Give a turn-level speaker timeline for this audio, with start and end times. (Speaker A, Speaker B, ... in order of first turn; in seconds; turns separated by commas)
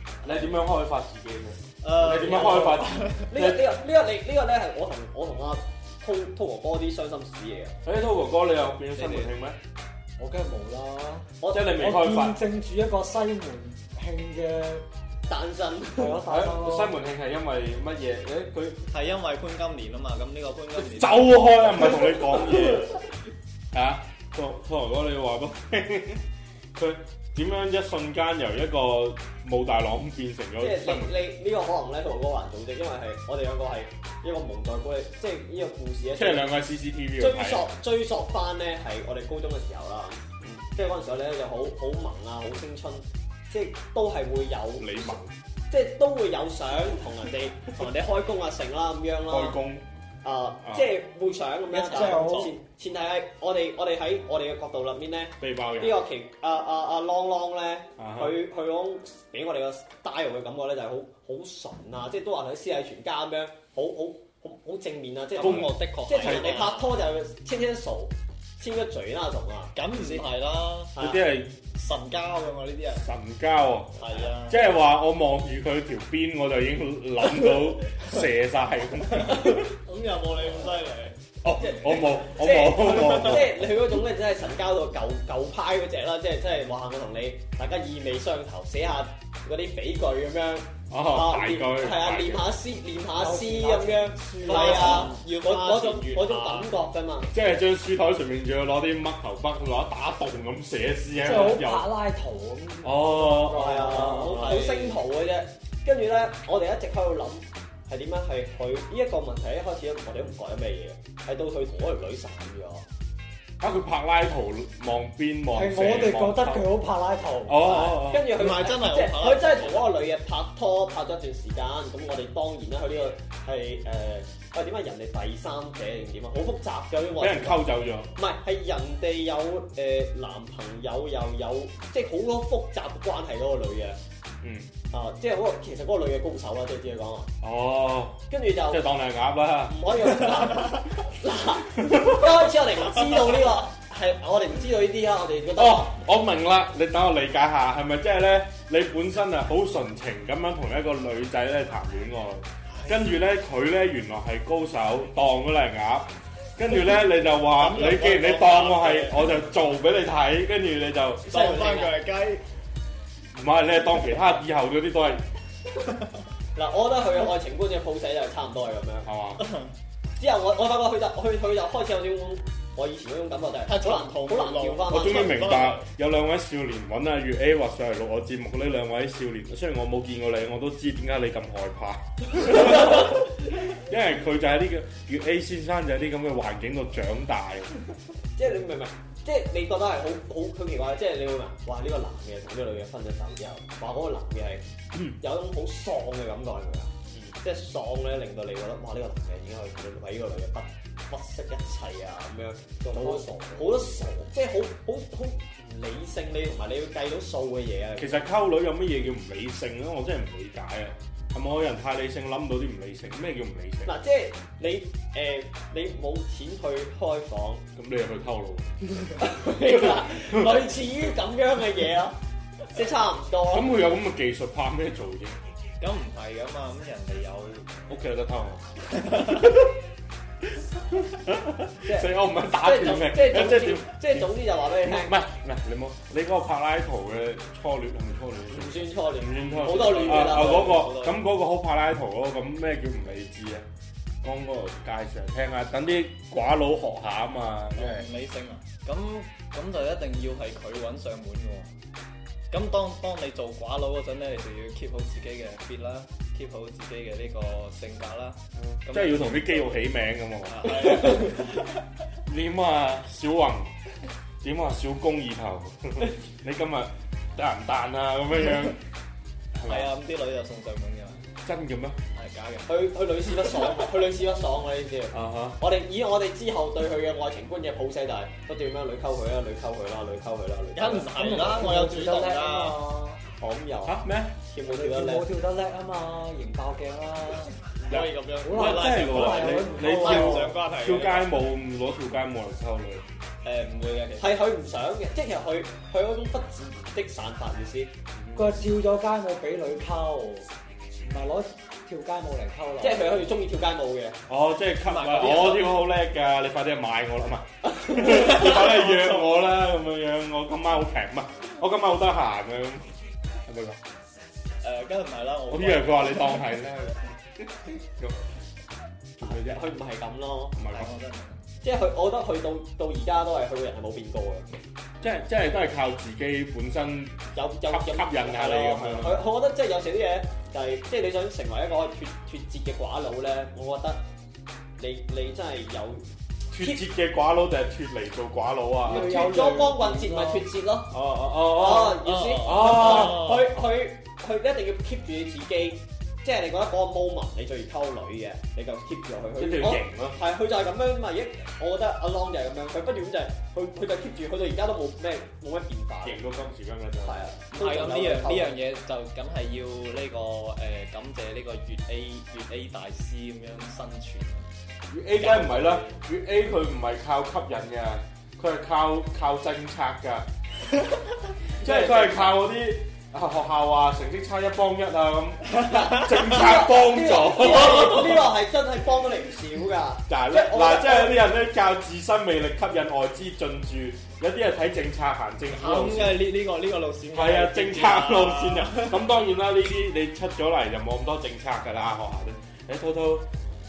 Speaker A: 0.2-0.6, Speaker B: 0.2-3.7, Speaker C: 1.8-3.2, Speaker A: 2.0-7.8, Speaker B: 7.8-9.6, Speaker C: 8.9-9.3, Speaker D: 10.2-14.8, Speaker A: 11.4-11.9, Speaker B: 11.5-12.4, Speaker A: 15.3-16.2, Speaker D: 16.0-17.0, Speaker B: 16.3-18.8, Speaker C: 18.9-22.0, Speaker B: 20.8-23.0, Speaker B: 23.7-26.2, Speaker B: 26.8-31.1, Speaker A: 30.6-36.5, Speaker B: 36.1-37.7, Speaker A: 37.2-49.6, Speaker B: 44.8-45.3, Speaker B: 49.3-49.9, Speaker A: 50.2-69.7, Speaker C: 51.7-52.5, Speaker D: 51.9-52.5, Speaker B: 55.4-56.0, Speaker B: 58.0-58.3, Speaker C: 65.3-67.0, Speaker B: 65.4-66.6, Speaker C: 69.8-70.9, Speaker A: 71.0-71.2, Speaker B: 71.0-71.5, Speaker C: 71.7-73.0, Speaker B: 72.9-79.8, Speaker C: 74.0-74.7, Speaker C: 79.2-81.2, Speaker B: 81.4-83.7, Speaker A: 82.2-97.3, Speaker C: 82.9-83.4, Speaker B: 90.9-92.5, Speaker D: 93.2-95.2, Speaker C: 94.4-96.7, Speaker B: 97.3-101.9, Speaker D: 101.2-104.6, Speaker B: 102.8-104.5, Speaker A: 103.5-112.8, Speaker C: 104.2-105.0, Speaker B: 113.6-116.8, Speaker D: 115.5-117.8, Speaker B: 117.5-118.3, Speaker A: 117.6-127.6, Speaker C: 118.3-120.0, Speaker B: 127.2-128.1, Speaker A: 128.2-134.0, Speaker B: 134.4-134.7, Speaker A: 134.9-137.3, Speaker B: 137.4-139.8, Speaker A: 138.3-138.8, Speaker A: 139.7-145.9, Speaker B: 141.9-142.3, Speaker B: 145.6-161.7, Speaker C: 156.8-159.2, Speaker C: 161.3-162.4, Speaker A: 161.4-161.9, Speaker B: 163.3-165.2, Speaker A: 166.6-169.1, Speaker B: 169.1-169.4, Speaker C: 169.4-169.7, Speaker A: 170.2-175.5, Speaker C: 173.7-175.9, Speaker B: 174.9-187.7, Speaker A: 188.4-194.6, Speaker A: 195.2-208.3, Speaker D: 202.8-203.9, Speaker B: 208.0-213.9, Speaker A: 213.9-217.7, Speaker B: 217.8-218.7, Speaker A: 219.2-222.2, Speaker B: 219.7-220.6, Speaker A: 222.7-223.8, Speaker B: 223.5-225.4, Speaker C: 225.8-227.7, Speaker B: 227.9-228.7, Speaker C: 229.0-229.4, Speaker B: 229.2-229.5, Speaker B: 230.9-243.7, Speaker A: 231.9-235.2, Speaker A: 238.5-241.1, Speaker C: 239.8-240.9, Speaker B: 244.2-248.1, Speaker C: 247.7-251.7, Speaker C: 252.5-259.8, Speaker B: 258.6-261.5, Speaker C: 260.5-261.7, Speaker B: 262.2-263.7, Speaker B: 264.4-268.8, Speaker B: 269.6-269.9, Speaker C: 269.7-271.3, Speaker B: 271.4-272.0, Speaker C: 272.1-272.7, Speaker A: 272.7-281.6, Speaker B: 275.1-275.6, Speaker C: 280.8-282.8, Speaker D: 281.1-283.2, Speaker A: 283.4-285.3, Speaker B: 283.8-284.4, Speaker D: 284.6-287.6, Speaker C: 287.8-291.3, Speaker B: 287.9-293.0, Speaker D: 288.4-290.6, Speaker C: 293.4-294.4, Speaker A: 294.2-297.9, Speaker B: 298.2-298.6, Speaker D: 298.4-300.5, Speaker D: 301.0-303.4, Speaker A: 302.8-304.2, Speaker B: 304.3-312.9, Speaker C: 304.9-305.6, Speaker A: 307.6-308.8, Speaker B: 313.5-313.8, Speaker C: 314.6-316.6, Speaker B: 315.5-318.2, Speaker B: 319.2-319.6, Speaker A: 319.2-320.6, Speaker B: 320.6-320.9, Speaker C: 320.7-321.4, Speaker A: 321.6-324.5, Speaker B: 325.0-329.3, Speaker A: 327.3-334.0, Speaker A: 334.8-336.8, Speaker B: 336.5-339.1, Speaker D: 338.8-340.5, Speaker A: 338.9-356.2, Speaker B: 340.9-343.4, Speaker C: 342.0-343.4, Speaker B: 349.4-350.2, Speaker B: 356.0-357.4, Speaker A: 357.0-358.6, Speaker C: 357.5-364.5, Speaker B: 364.9-370.3, Speaker C: 365.2-366.0, Speaker B: 371.6-378.3, Speaker A: 371.6-372.3, Speaker A: 376.2-381.2, Speaker B: 380.1-386.3, Speaker C: 385.5-389.0, Speaker B: 387.1-393.3